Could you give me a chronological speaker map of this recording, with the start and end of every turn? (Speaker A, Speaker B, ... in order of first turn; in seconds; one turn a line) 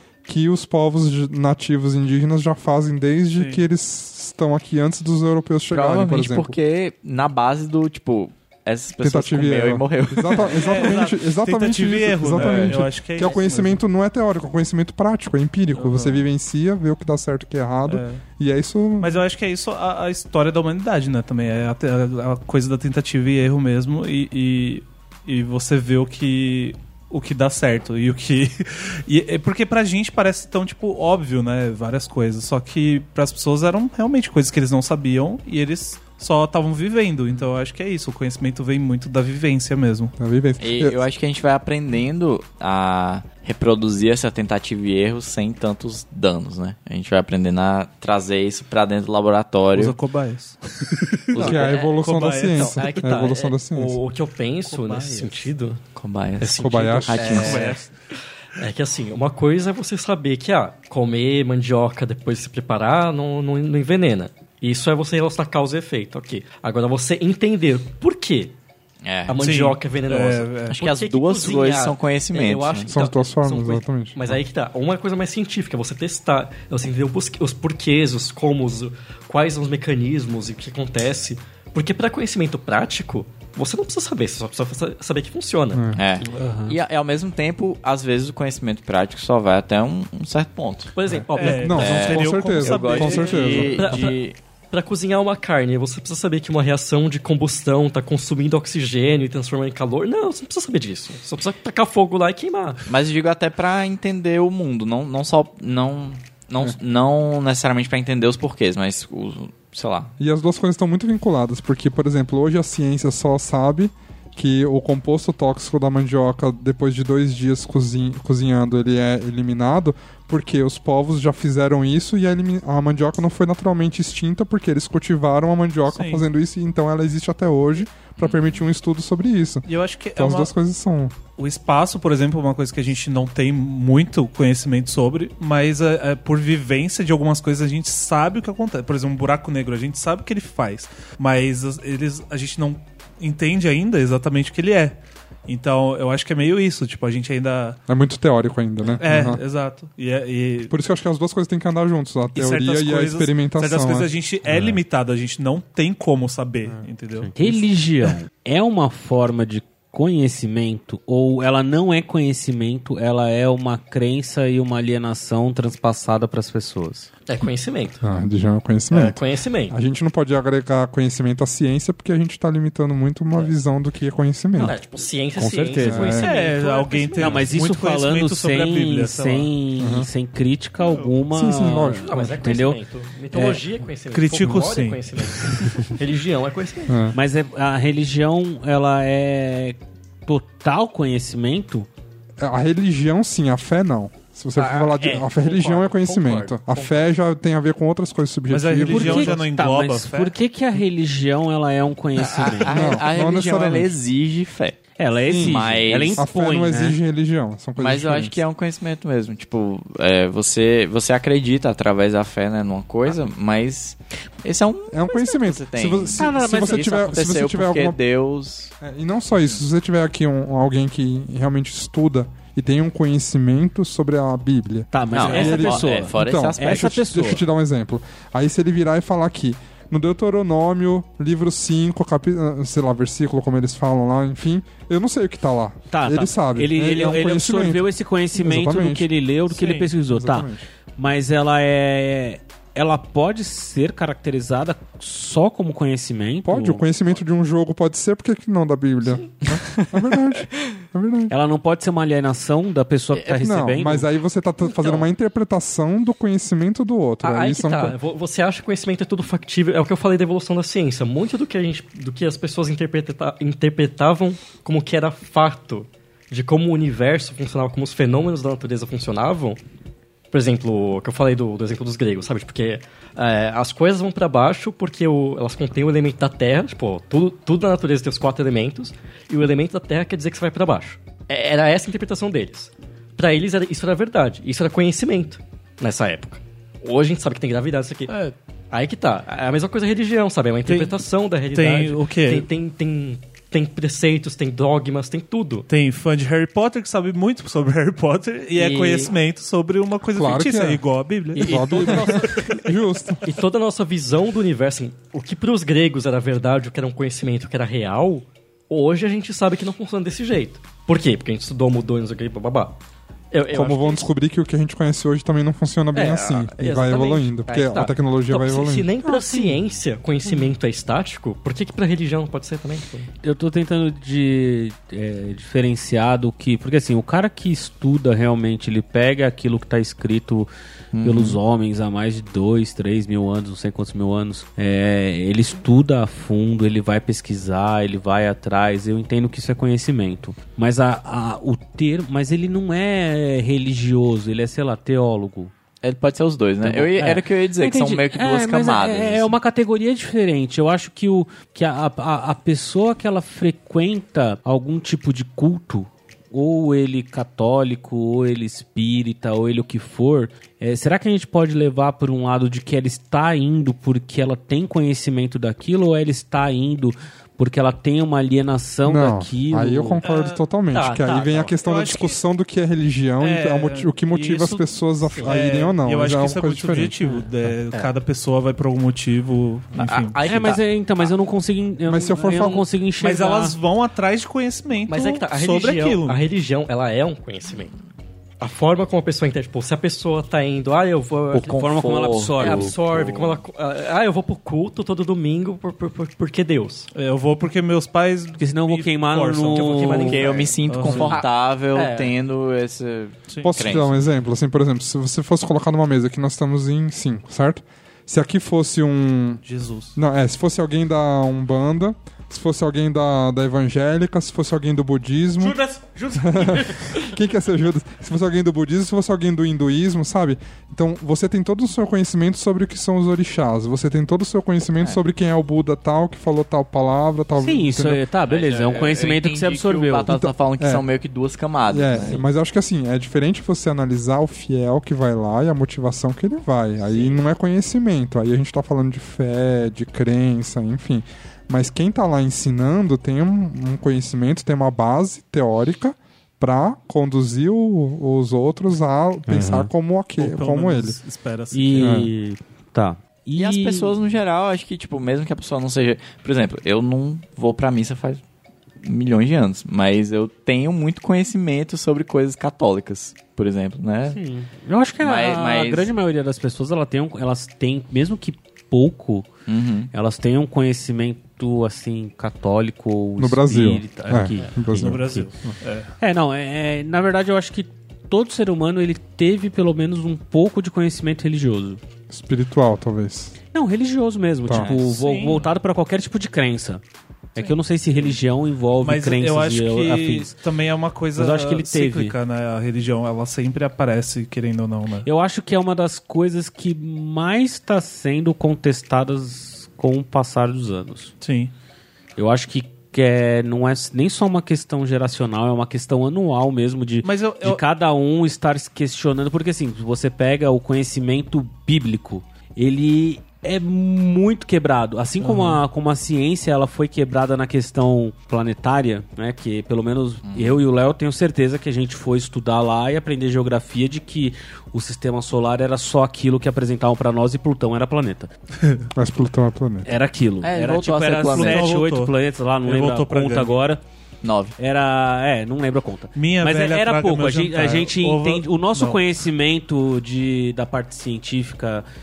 Speaker A: 0.2-6.5
Speaker B: 5.7-11.0
Speaker A: 9.0-19.2
Speaker C: 10.5-13.8
Speaker B: 12.3-12.8
Speaker C: 15.8-16.2
Speaker C: 17.9-18.2
Speaker C: 19.0-40.1
Speaker A: 40.2-41.0
Speaker B: 40.6-50.0
Speaker C: 49.7-52.8
Speaker B: 51.3-51.8
Speaker D: 51.4-51.9
Speaker A: 51.4-54.0
Speaker D: 52.5-55.8
Speaker C: 54.8-55.2
Speaker B: 55.9-57.7
Speaker D: 56.4-57.8
Speaker A: 56.5-57.5
Speaker C: 57.3-57.9
Speaker D: 58.5-68.5
Speaker B: 69.0-69.4
Speaker D: 69.3-85.9
Speaker C: 69.4-70.8
Speaker B: 70.7-72.9
Speaker A: 72.9-74.4
Speaker A: 85.7-86.0
Speaker B: 85.9-90.9
Speaker E: 86.2-86.7
Speaker D: 90.9-92.1
Speaker C: 91.3-93.7
Speaker A: 91.5-94.0
Speaker B: 91.8-94.3
Speaker D: 93.6-102.9
Speaker B: 102.9-110.1
Speaker A: 110.2-131.1
Speaker C: 125.9-126.2
Speaker B: 128.2-128.6
Speaker C: 129.7-130.5
Speaker C: 131.4-147.8
Speaker A: 147.9-149.4
Speaker C: 148.9-150.7
Speaker A: 150.7-154.1
Speaker C: 152.3-157.6
Speaker E: 157.3-167.1
Speaker D: 167.3-168.0
Speaker A: 168.0-169.2
Speaker D: 168.9-169.8
Speaker A: 169.7-174.8
Speaker D: 174.6-177.5
Speaker E: 175.4-176.1
Speaker A: 175.8-176.3
Speaker C: 176.1-179.5
Speaker E: 177.2-182.8
Speaker A: 179.8-180.1
Speaker C: 180.8-181.1
Speaker A: 181.3-182.4
Speaker D: 182.0-187.0
Speaker E: 183.3-183.6
Speaker C: 184.1-185.6
Speaker A: 186.9-187.2
Speaker E: 187.1-191.9
Speaker A: 192.4-199.4
Speaker D: 194.6-197.1
Speaker C: 198.5-200.3
Speaker E: 198.8-202.8
Speaker B: 202.2-204.8
Speaker A: 202.6-203.9
Speaker E: 205.0-207.0
Speaker A: 205.3-208.4
Speaker B: 205.4-206.2
Speaker B: 207.8-218.7
Speaker A: 214.9-218.0
Speaker E: 216.2-217.2
Speaker A: 218.8-237.9
Speaker E: 224.9-227.4
Speaker B: 225.1-227.4
Speaker E: 235.9-246.8
Speaker A: 238.4-239.1
Speaker C: 239.5-239.9
Speaker A: 240.1-240.6
Speaker A: 246.4-251.3
Speaker E: 251.3-254.1
Speaker A: 253.2-257.9
Speaker D: 257.2-269.6
Speaker D: 270.3-288.1
Speaker C: 288.1-288.3
Speaker D: 288.7-295.7
Speaker C: 290.7-290.9
Speaker C: 291.5-292.5
Speaker C: 295.7-302.1
Speaker D: 298.5-299.1
Speaker A: 300.1-300.8
Speaker A: 301.4-303.2
Speaker D: 301.4-312.8
Speaker D: 313.3-314.1
Speaker A: 313.5-318.9
Speaker D: 315.9-323.1
Speaker E: 319.0-319.6
Speaker E: 323.2-330.5
Speaker B: 330.9-331.4
Speaker E: 331.0-345.5
Speaker B: 345.8-349.3
Speaker E: 346.6-370.0
Speaker A: 368.9-376.9
Speaker C: 370.0-370.4
Speaker D: 370.7-371.5
Speaker C: 371.6-372.2
Speaker C: 373.2-374.7
Speaker D: 375.1-375.4
Speaker C: 375.2-380.2
Speaker D: 379.8-380.6
Speaker E: 380.2-383.6
Speaker A: 381.9-382.6
Speaker C: 383.0-386.2
Speaker D: 384.9-387.7
Speaker D: 388.4-391.6
Speaker B: 391.3-393.4
Speaker E: 391.3-392.7
Speaker D: 392.4-396.9
Speaker C: 396.9-401.1
Speaker E: 398.4-400.2
Speaker D: 399.5-402.1
Speaker B: 400.1-404.0
Speaker C: 403.3-403.8
Speaker A: 403.4-409.4
Speaker C: 409.4-410.0
Speaker A: 409.9-415.6
Speaker E: 415.4-417.0
Speaker A: 416.1-428.0
Speaker E: 427.4-430.1
Speaker B: 428.2-432.2
Speaker A: 430.1-430.8
Speaker A: 431.6-451.0
Speaker E: 449.3-449.7
Speaker C: 450.2-452.0
Speaker E: 451.5-453.9
Speaker A: 451.8-452.1
Speaker B: 453.4-458.2
Speaker B: 458.8-464.2
Speaker E: 464.1-469.3
Speaker B: 465.0-465.9
Speaker B: 469.5-469.9
Speaker E: 469.9-475.3
Speaker A: 473.2-475.5
Speaker C: 474.7-475.9
Speaker E: 476.0-481.8
Speaker A: 482.1-483.4
Speaker E: 483.5-486.8
Speaker A: 484.4-484.7
Speaker B: 484.5-485.0
Speaker C: 485.0-485.4
Speaker E: 487.3-490.3
Speaker C: 488.8-495.1
Speaker E: 491.1-492.2
Speaker E: 495.0-501.1
Speaker C: 501.2-501.5
Speaker E: 502.2-528.3
Speaker C: 507.0-507.6
Speaker C: 515.2-515.6
Speaker B: 520.2-520.6
Speaker A: 529.0-529.9
Speaker E: 529.8-533.8
Speaker B: 530.4-531.7
Speaker C: 531.2-533.5
Speaker B: 534.2-534.5
Speaker E: 534.6-541.8
Speaker C: 536.1-539.0